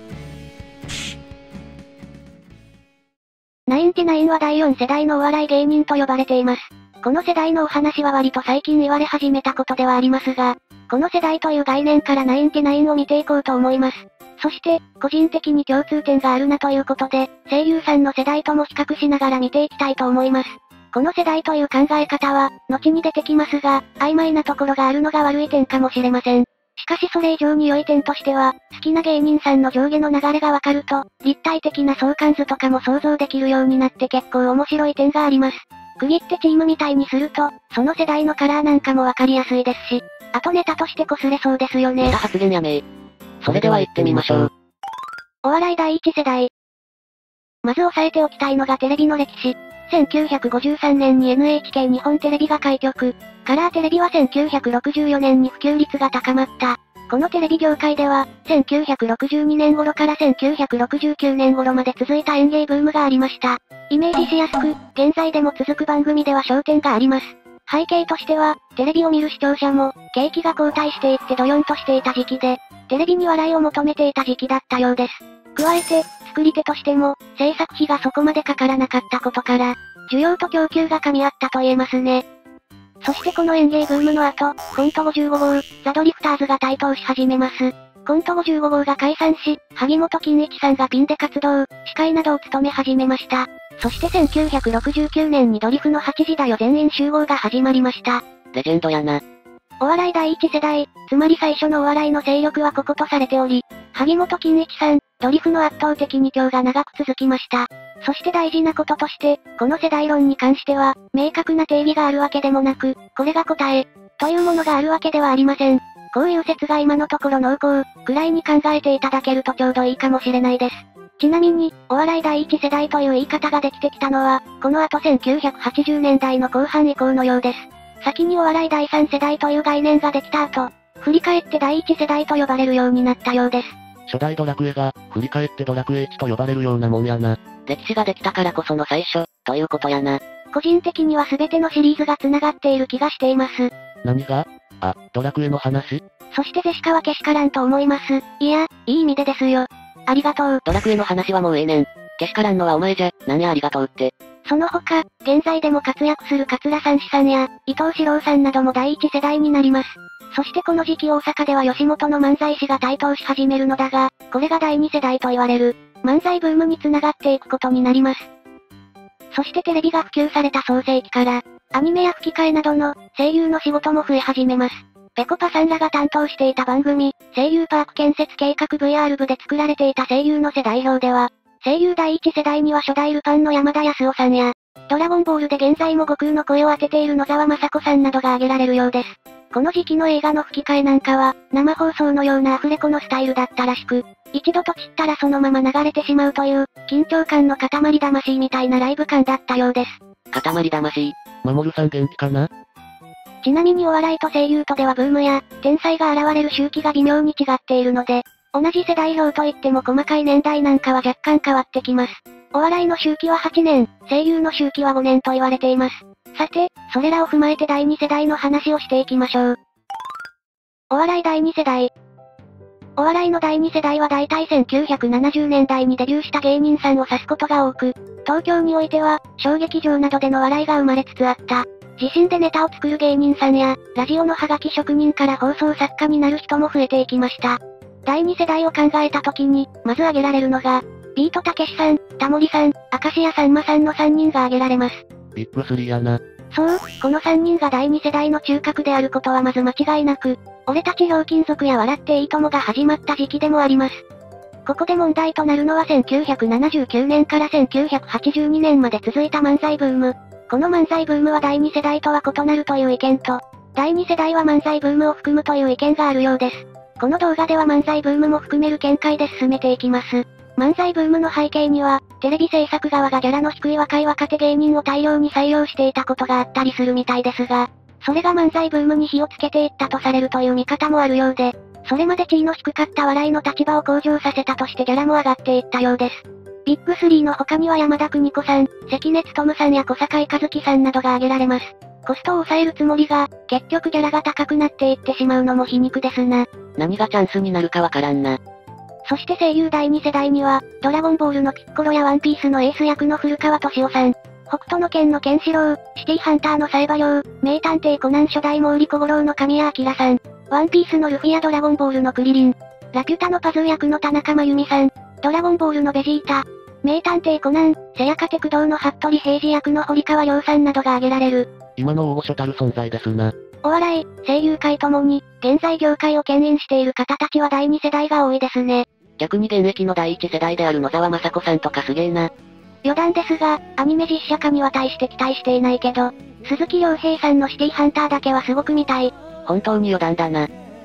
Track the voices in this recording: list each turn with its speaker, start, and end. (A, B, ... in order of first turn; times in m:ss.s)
0:03.7-0:42.2 A
0:42.0-0:42.8 B
0:43.4-0:44.5 B
0:43.5-0:44.5 C
0:45.4-0:46.5 A
0:47.6-1:22.2 A
1:23.0-1:38.2 A
1:38.5-1:39.2 B
1:39.8-2:13.8 A
2:14.1-2:17.4 C
2:14.1-2:14.6 B
2:17.0-2:20.2 B
2:20.5-2:23.7 A
2:24.0-2:26.0 C
2:26.3-2:30.6 A
2:30.6-2:34.1 B
2:34.4-2:48.3 A
2:49.3-3:20.0 A
3:20.3-3:22.5 B
3:23.4-3:39.6 A
3:40.9-3:41.9 A
3:43.0-4:05.0 A
4:05.3-4:06.2 C
4:06.5-4:14.0 A
4:14.6-4:56.5 A
4:56.8-4:58.4 B
4:59.0-5:21.6 A
5:21.8-5:23.2 B
5:21.8-5:23.3 C
5:23.6-5:28.8 A
5:29.2-5:32.3 B
5:32.8-5:39.1 A
5:39.4-5:40.5 B